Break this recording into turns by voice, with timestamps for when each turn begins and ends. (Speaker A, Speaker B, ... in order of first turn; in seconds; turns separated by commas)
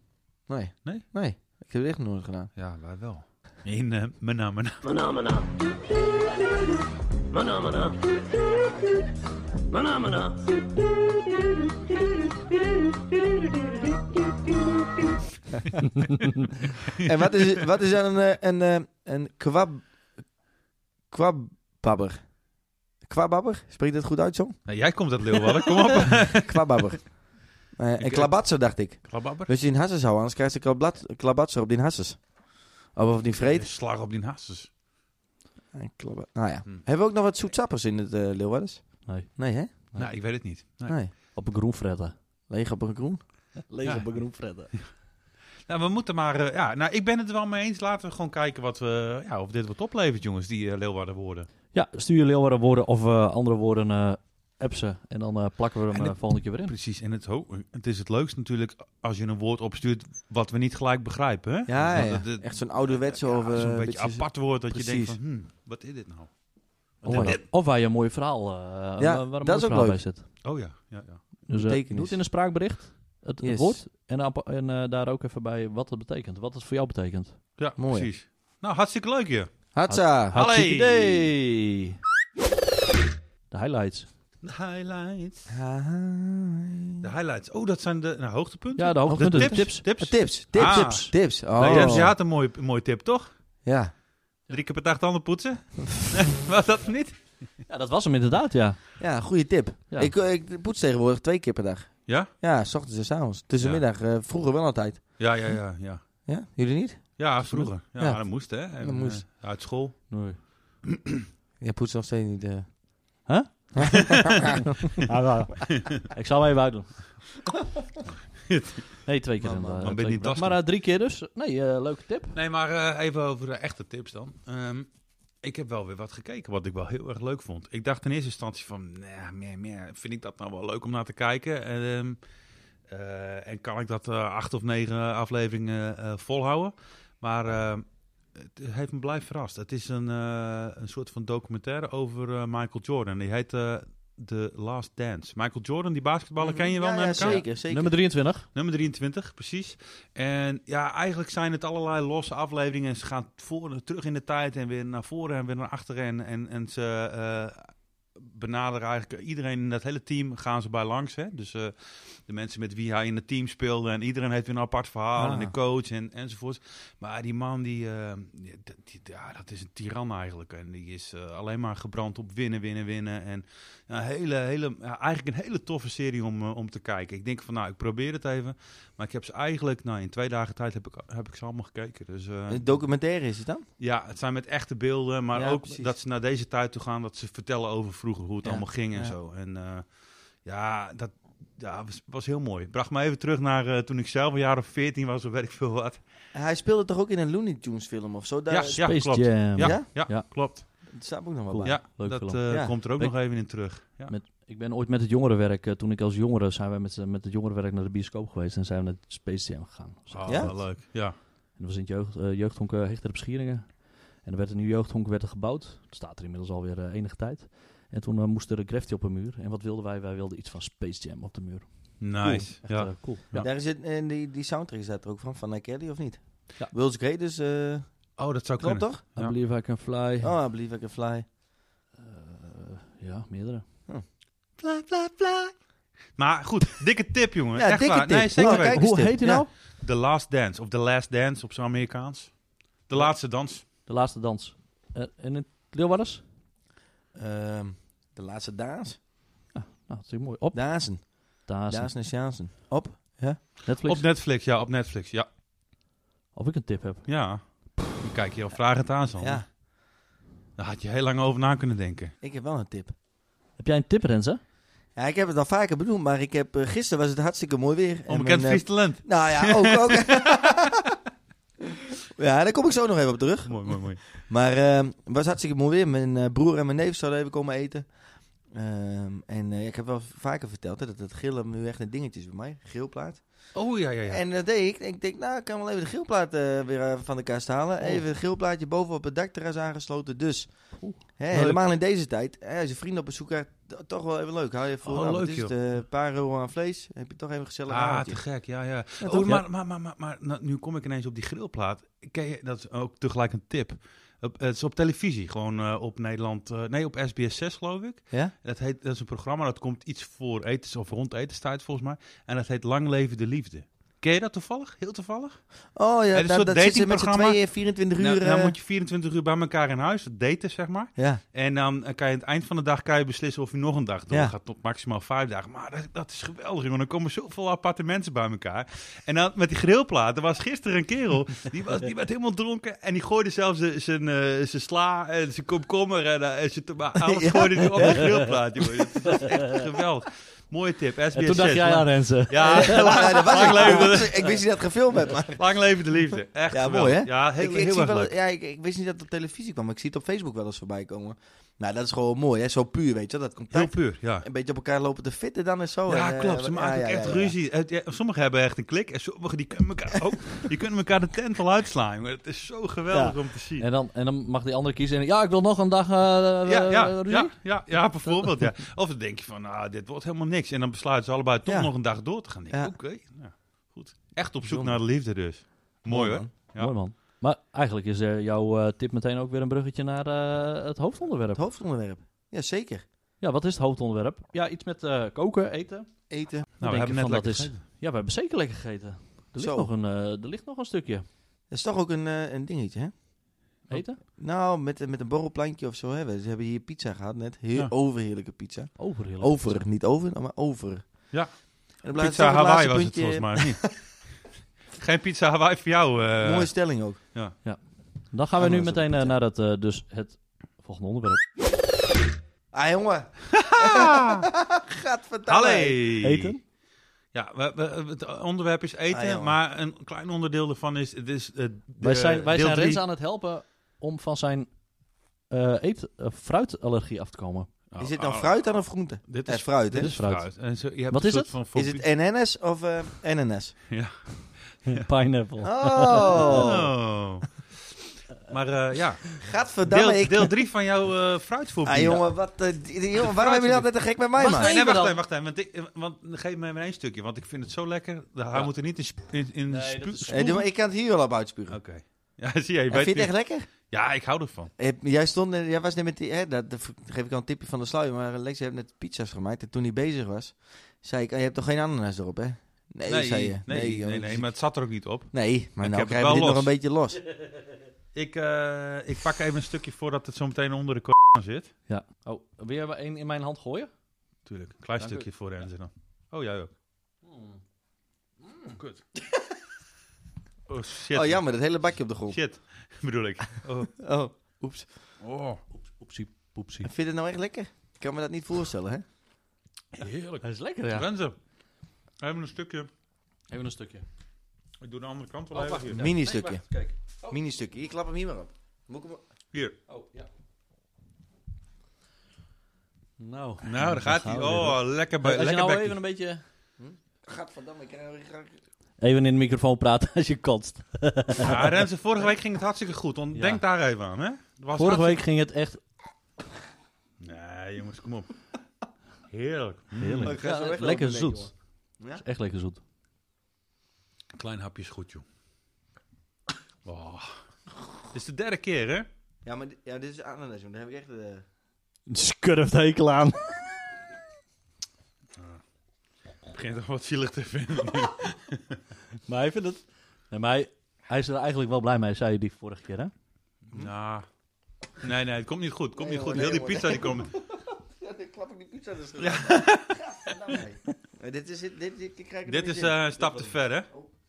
Speaker A: 0.5-2.5, Speaker B: 2.6-5.1, Speaker B: 16.9-17.6, Speaker A: 17.0-19.9, Speaker A: 21.1-22.3, Speaker A: 23.0-24.6, Speaker B: 24.7-26.9, Speaker A: 25.4-32.4, Speaker B: 28.0-29.5, Speaker A: 32.9-33.7, Speaker B: 33.4-34.7, Speaker A: 35.7-39.7, Speaker C: 39.0-39.4, Speaker C: 39.9-40.2, Speaker B: 40.0-41.0, Speaker A: 40.9-41.1, Speaker C: 41.3-42.1, Speaker A: 42.5-43.2, Speaker C: 43.6-44.7, Speaker B: 43.9-44.1, Speaker B: 45.7-51.5, Speaker C: 51.7-56.7, Speaker B: 56.0-66.4, Speaker A: 61.7-65.2, Speaker B: 67.0-67.4, Speaker A: 67.0-67.4, Speaker C: 67.0-70.3, Speaker A: 69.0-70.0, Speaker B: 70.4-71.3, Speaker A: 71.5-72.2, Speaker C: 71.5-77.4, Speaker A: 73.4-73.8, Speaker B: 77.6-79.7, Speaker A: 77.8-78.1, Speaker A: 79.7-80.4, Speaker C: 79.9-82.0, Speaker B: 80.3-81.3, Speaker C: 83.5-84.1, Speaker B: 84.4-85.5, Speaker A: 85.5-87.1, Speaker B: 87.0-93.3, Speaker C: 88.8-91.7, Speaker A: 89.1-92.2, Speaker A: 93.7-93.9, Speaker B: 94.5-97.2, Speaker C: 97.7-99.0, Speaker A: 99.0-105.0, Speaker B: 105.2-106.0, Speaker A: 106.3-107.1, Speaker B: 107.2-110.2, Speaker C: 107.4-108.2, Speaker A: 108.8-109.2, Speaker C: 110.1-110.4, Speaker B: 110.9-111.2, Speaker A: 111.6-112.8, Speaker C: 113.3-114.1, Speaker A: 113.8-114.7, Speaker B: 114.0-114.3, Speaker C: 115.0-117.2, Speaker B: 118.5-119.0, Speaker C: 119.0-122.3, Speaker A: 119.4-119.9, Speaker B: 119.8-120.6, Speaker B: 122.3-124.9, Speaker B: 125.4-132.2, Speaker B: 132.9-147.4, Speaker A: 146.4-147.9, Speaker C: 147.1-148.5, Speaker B: 148.5-182.7, Speaker A: 165.2-165.6, Speaker A: 182.5-183.6, Speaker B: 183.8-189.9, Speaker A: 185.3-185.9, Speaker A: 188.4-189.2, Speaker B: 190.4-196.0, Speaker A: 196.3-199.9, Speaker B: 198.5-200.9, Speaker C: 198.8-200.3, Speaker A: 200.8-202.8, Speaker C: 201.5-203.2, Speaker B: 201.6-204.1, Speaker C: 204.1-210.8, Speaker B: 210.1-211.2, Speaker A: 210.3-210.5, Speaker C: 211.5-223.3, Speaker B: 222.0-223.5, Speaker A: 223.3-229.0, Speaker B: 228.2-229.3, Speaker C: 229.2-230.3, Speaker A: 230.2-231.3, Speaker C: 232.0-233.6, Speaker A: 234.6-235.6, Speaker B: 236.2-239.1, Speaker A: 237.6-239.5, Speaker C: 238.4-239.5, Speaker B: 239.7-243.6, Speaker C: 243.0-246.2, Speaker A: 247.2-249.0, Speaker C: 249.5-251.9, Speaker A: 250.5-253.4, Speaker C: 253.7-254.0, Speaker B: 253.8-255.3, Speaker C: 256.3-257.1, Speaker B: 257.1-259.4, Speaker A: 259.2-259.5, Speaker B: 260.6-262.1, Speaker A: 262.2-262.9, Speaker C: 263.6-264.4, Speaker A: 265.0-271.0, Speaker B: 268.1-270.0, Speaker A: 272.1-277.9, Speaker B: 273.5-274.2, Speaker A: 278.5-298.2, Speaker B: 283.5-284.2, Speaker B: 291.3-291.6, Speaker B: 294.9-295.5, Speaker B: 297.7-315.4, Speaker A: 299.0-299.3, Speaker A: 315.8-318.5, Speaker B: 316.1-344.4, Speaker A: 321.0-321.2, Speaker A: 337.0-338.3, Speaker C: 341.1-343.9, Speaker A: 342.4-345.4, Speaker B: 345.3-348.1, Speaker A: 346.5-357.3, Speaker B: 353.5-354.3, Speaker B: 355.9-363.7, Speaker A: 362.9-363.2, Speaker C: 363.6-367.3, Speaker B: 366.5-376.7, Speaker A: 371.4-371.7, Speaker A: 372.5-372.8, Speaker C: 374.4-374.8, Speaker A: 375.9-376.3, Speaker C: 376.4-381.4, Speaker A: 381.4-382.9, Speaker C: 383.2-385.9, Speaker A: 386.1-386.5, Speaker B: 386.6-387.6, Speaker C: 386.6-391.1, Speaker A: 389.4-389.7, Speaker A: 391.5-392.9, Speaker C: 393.7-394.0, Speaker A: 394.2-401.1, Speaker C: 398.8-399.6, Speaker B: 401.1-403.8, Speaker A: 401.8-403.8, Speaker B: 404.8-406.5, Speaker A: 406.2-407.0, Speaker C: 408.1-411.2, Speaker A: 408.4-409.1, Speaker A: 412.5-415.9, Speaker B: 413.3-414.3, Speaker B: 415.3-416.4, Speaker C: 416.0-416.4, Speaker B: 417.1-422.8, Speaker A: 418.9-419.4, Speaker C: 421.8-424.6, Speaker C: 425.3-427.5, Speaker B: 427.7-428.6, Speaker A: 427.8-429.9, Speaker B: 429.1-431.8, Speaker C: 429.7-430.3, Speaker C: 430.9-431.3, Speaker A: 431.6-433.6, Speaker B: 433.7-434.9, Speaker C: 434.7-436.5, Speaker A: 435.4-436.7, Speaker B: 436.1-442.1, Speaker A: 439.2-440.4, Speaker A: 441.6-444.5, Speaker B: 443.0-450.4, Speaker C: 444.2-445.0, Speaker C: 449.5-450.4, Speaker A: 450.1-451.6, Speaker B: 451.5-454.5, Speaker A: 452.7-453.5, Speaker A: 454.6-464.3, Speaker B: 462.9-466.5, Speaker A: 465.1-467.0, Speaker B: 467.9-471.5, Speaker C: 471.7-473.7, Speaker B: 474.3-476.5, Speaker C: 474.8-475.1, Speaker C: 477.1-477.4, Speaker B: 478.5-478.8, Speaker B: 480.5-481.2, Speaker A: 480.9-482.2, Speaker B: 482.1-483.8, Speaker A: 483.7-484.7, Speaker B: 485.0-485.4, Speaker C: 485.5-486.7, Speaker A: 486.6-488.8, Speaker B: 489.7-491.2, Speaker C: 489.8-490.9, Speaker B: 492.0-492.7, Speaker C: 493.3-493.9, Speaker B: 494.6-495.9, Speaker C: 495.3-497.2, Speaker A: 495.8-496.4, Speaker A: 497.1-499.0, Speaker C: 499.7-500.1, Speaker C: 503.0-506.2, Speaker B: 503.4-505.8, Speaker A: 506.6-508.4, Speaker C: 508.8-511.6, Speaker B: 511.2-515.0, Speaker C: 513.1-513.4, Speaker C: 514.5-515.6, Speaker B: 517.0-518.1, Speaker B: 519.1-520.2, Speaker C: 519.8-521.3, Speaker A: 520.0-522.0, Speaker C: 522.0-522.6, Speaker B: 524.2-525.0, Speaker B: 526.6-527.1, Speaker B: 527.9-528.9, Speaker A: 529.2-531.2, Speaker C: 531.9-533.4, Speaker B: 536.3-538.6, Speaker C: 539.1-542.9, Speaker B: 543.5-544.1, Speaker B: 544.8-547.1, Speaker A: 545.8-553.9, Speaker B: 549.0-550.4, Speaker B: 552.3-553.7